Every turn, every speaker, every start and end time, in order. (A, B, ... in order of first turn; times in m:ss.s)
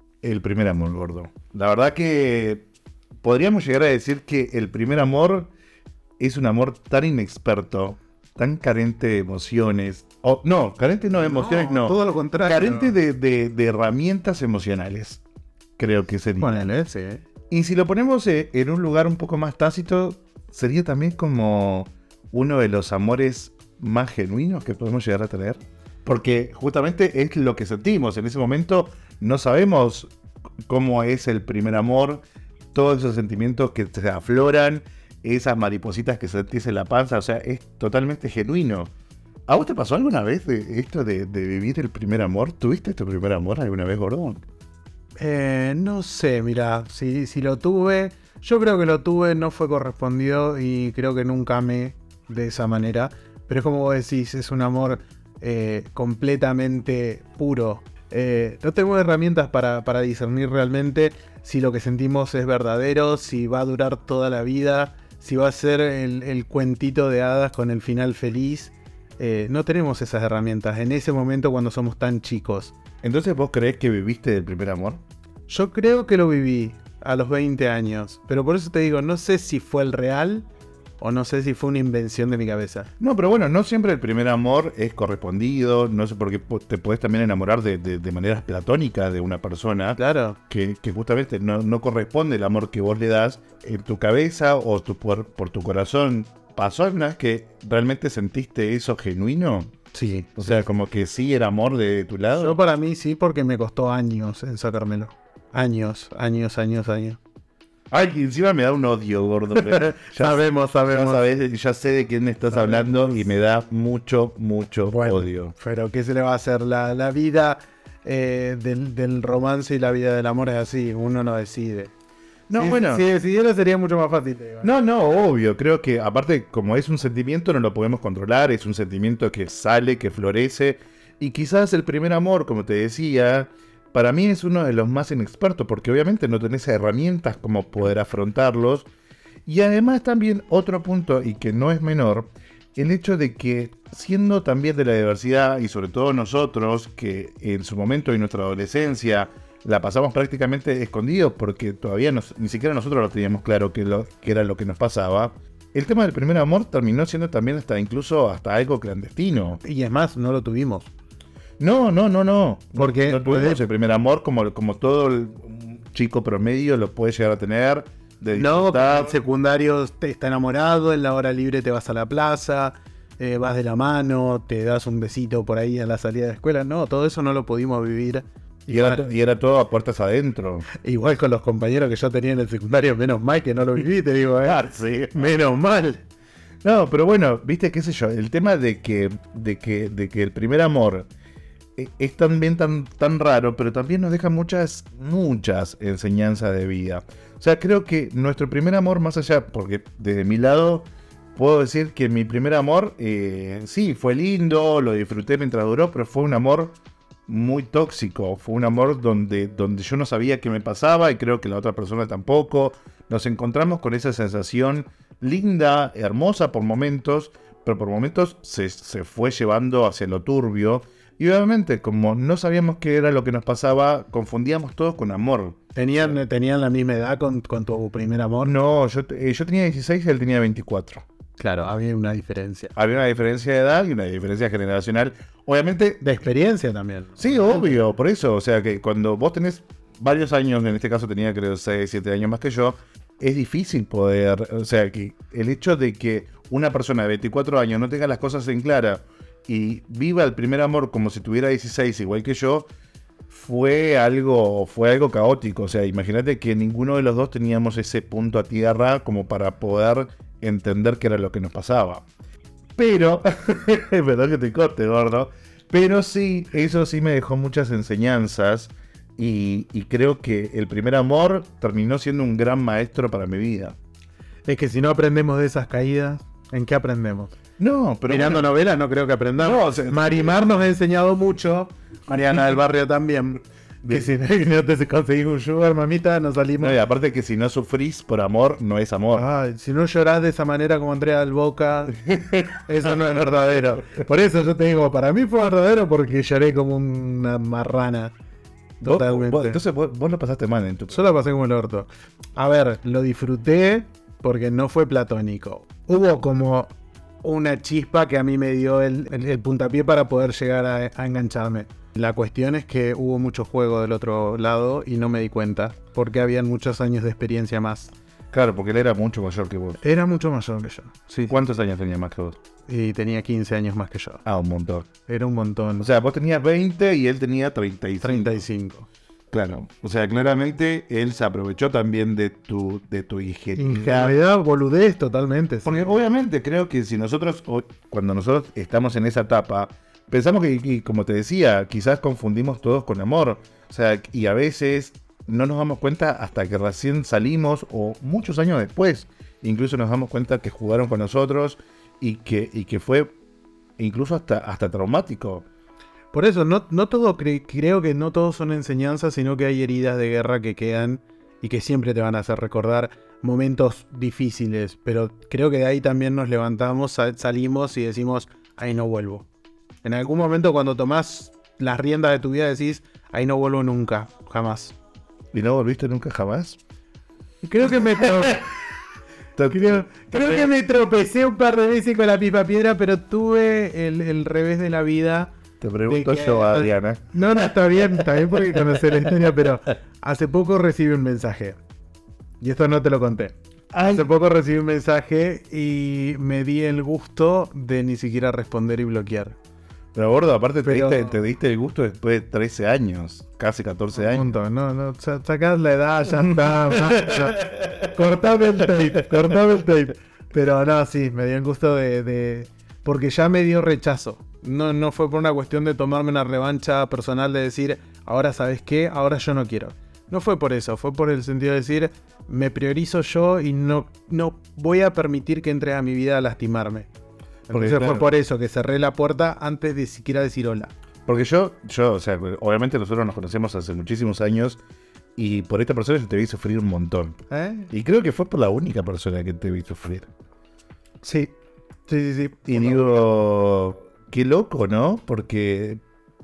0:00.2-0:02.6 A
0:03.2-0:05.5 A
0:06.2-0:15.2 A
0:11.2-0:13.0 B
0:15.8-0:16.7 A
0:16.4-0:17.2 B
0:17.5-0:30.1 A
0:30.6-0:32.2 A
0:32.7-0:38.9 A
0:39.5-0:44.4 A
0:45.2-1:12.7 B
1:13.0-1:15.0 A
1:15.5-1:20.5 B
1:21.0-1:22.9 B
1:23.0-1:39.7 A
1:30.0-1:30.4 B
1:39.9-1:40.6 B
1:40.4-1:42.6 A
1:42.4-1:47.2 B
1:47.9-1:55.5 A
1:49.7-1:51.2 B
1:52.5-1:53.1 B
1:54.9-2:01.9 B
2:02.5-2:03.0 A
2:02.5-2:04.7 B
2:04.6-2:18.9 A
2:19.4-2:39.6 A
2:39.6-2:40.9 B
2:41.6-2:49.1 A
2:42.8-2:43.6 B
2:48.3-2:59.0 B
2:58.7-3:00.6 A
3:00.7-3:06.0 B
3:04.4-3:05.3 A
3:06.6-3:11.1 A
3:11.8-3:26.8 A
3:27.3-3:46.2 A
3:45.7-3:48.5 B
3:48.4-3:51.0 A
3:51.4-3:52.7 B
3:52.7-3:56.0 A
3:56.0-3:57.8 B
3:57.2-4:12.7 A
4:13.3-4:22.0 A
4:22.8-4:33.8 A
4:34.4-4:37.3 B
4:37.6-4:38.4 A
4:38.1-4:46.8 B
4:39.4-4:40.1 A
4:46.6-4:49.2 A
4:49.1-4:58.1 B
4:58.8-4:59.6 B
4:58.8-5:01.0 A
5:00.9-5:06.7 B
5:07.2-5:17.9 B
5:18.3-5:19.8 A
5:19.8-5:21.4 B
5:21.3-5:22.4 A
5:22.7-5:24.2 B
5:24.2-5:24.9 A
5:25.0-5:25.8 B
5:25.8-5:28.4 A
5:28.0-5:28.9 B
5:29.3-5:34.2 A
5:33.6-5:35.8 B
5:35.6-5:53.1 A
5:53.8-5:55.4 A
5:56.1-6:09.3 B
6:09.8-6:14.7 B
6:15.3-6:16.6 A
6:17.4-6:18.4 B
6:19.4-6:20.5 A
6:19.5-6:25.3 B
6:25.6-6:27.0 A
6:25.9-6:31.6 B
6:32.4-6:33.3 B
6:33.7-6:34.1 A
6:33.9-6:39.4 B
6:39.9-6:44.3 A
6:40.6-6:41.2 B
6:44.0-7:06.9 B
6:46.7-6:47.9 A
7:07.5-7:10.7 B
7:07.5-7:08.1 A
7:11.0-7:14.6 A
7:15.2-7:17.2 A
7:17.3-7:17.7 B
7:17.7-7:20.1 A
7:21.0-7:21.3 B
7:21.9-7:23.0 B
7:22.4-7:25.8 A